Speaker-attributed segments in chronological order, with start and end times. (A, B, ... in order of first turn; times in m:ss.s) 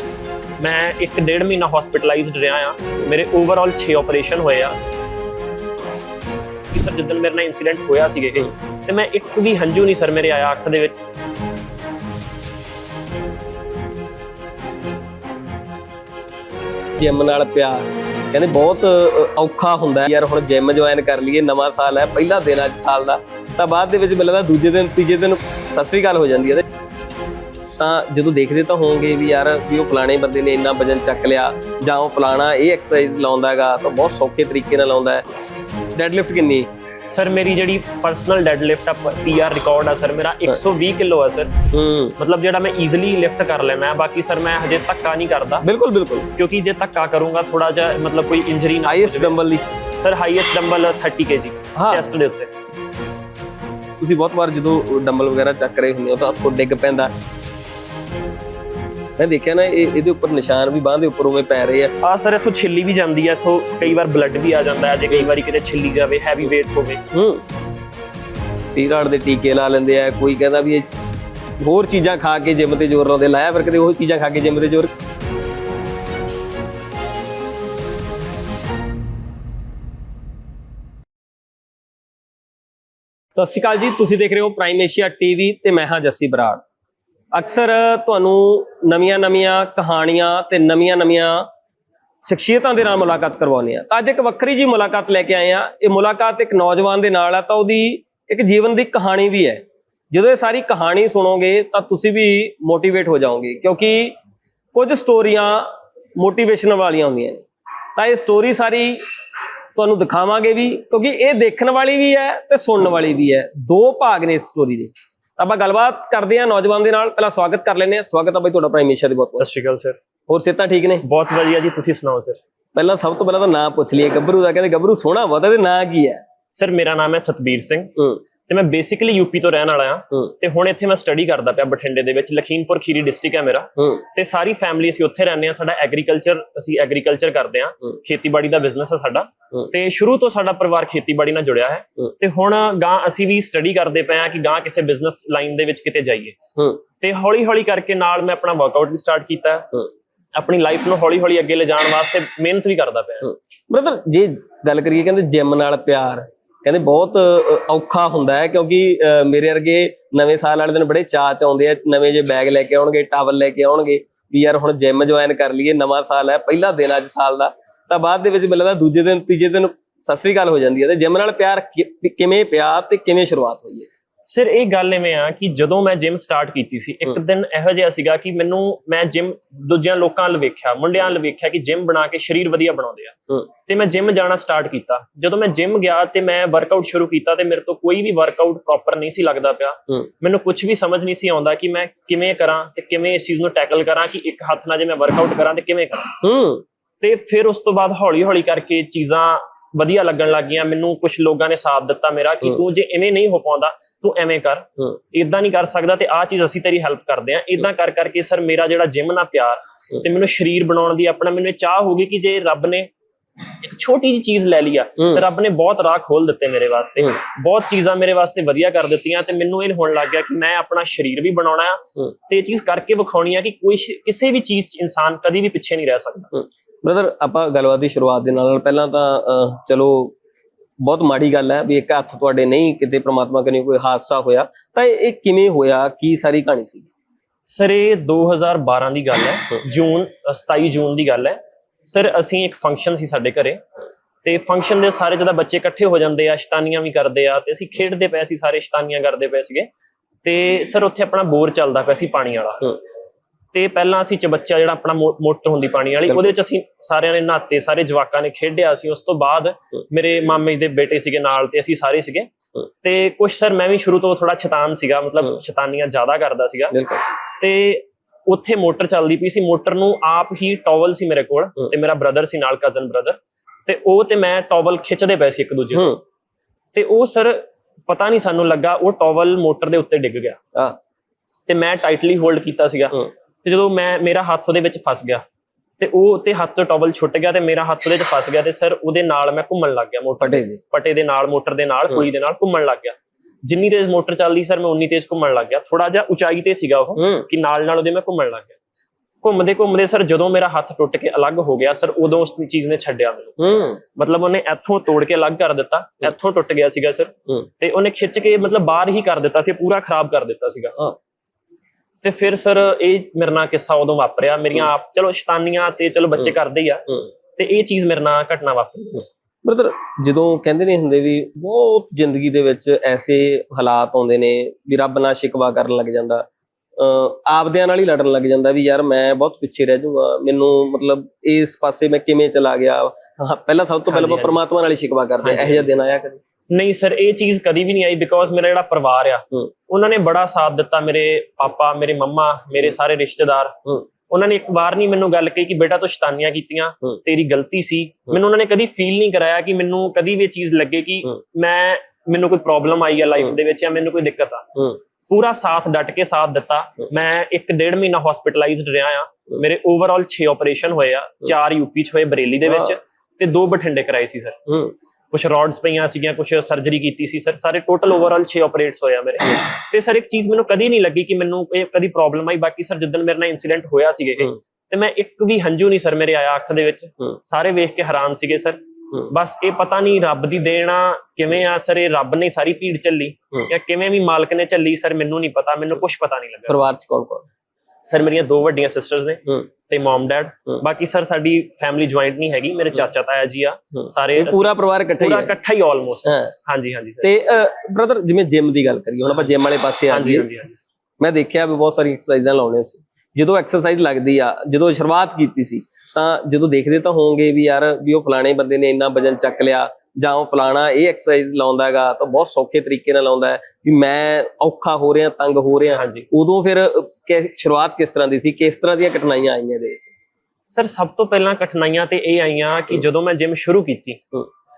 0:00.6-0:04.8 A
0:06.7-0:11.0 A
0:17.0-0:26.6 B
0:27.8-0:35.2 B
0:35.9-0:36.7 B
0:37.1-0:41.5 A
0:41.7-0:42.1 B
0:42.2-0:45.6 A
0:45.6-0:46.3 B
0:46.4-0:49.4 A
0:48.8-0:49.6 B
0:49.9-0:52.5 A
0:51.8-0:52.0 B
0:54.0-0:57.1 B
0:59.2-1:01.9 B
1:02.0-1:07.0 A
1:07.1-1:07.4 B
1:08.6-1:10.8 B
1:11.6-1:14.9 B
1:23.3-1:26.6 B
1:27.3-1:31.5 B
1:32.2-1:44.2 B
1:44.7-1:47.4 B
1:48.0-1:49.0 B
1:49.7-1:59.4 B
1:59.4-2:00.0 A
2:00.3-2:01.0 B
2:01.0-2:02.4 A
2:02.7-2:06.2 B
2:06.5-2:07.9 A
2:08.5-2:26.4 A
2:27.0-2:29.8 A
2:30.4-2:33.3 A
2:33.7-2:53.9 B
2:54.3-3:16.2 A
3:16.2-3:16.6 B
3:17.0-3:32.9 A
3:33.6-3:46.3 A
3:46.8-3:50.1 B
3:50.8-3:56.9 B
3:57.5-4:03.6 A
4:04.2-4:09.7 A
4:10.2-4:12.8 A
4:13.5-4:22.3 A
4:22.8-4:26.7 A
4:26.7-4:27.0 B
4:27.4-4:35.9 A
4:35.7-4:36.0 B
4:36.7-4:40.4 A
4:41.5-4:45.2 A
4:45.8-4:58.6 A
4:50.2-4:50.6 B
4:57.0-4:57.3 B
4:59.2-5:03.3 A
5:03.4-5:03.8 B
5:04.0-5:10.8 A
5:12.0-5:19.1 A
5:19.4-5:26.2 B
5:26.8-5:36.2 B
5:33.9-5:34.4 A
5:35.2-5:35.8 A
5:36.5-6:04.4 A
6:04.5-6:04.7 B
6:05.1-6:26.6 A
6:26.5-6:27.3 B
6:27.8-6:37.1 A
6:33.8-6:35.3 B
6:36.0-6:36.3 B
6:37.0-6:40.3 B
6:39.9-6:40.6 A
6:41.0-6:59.9 B
6:55.7-6:56.0 A
7:00.5-7:04.0 A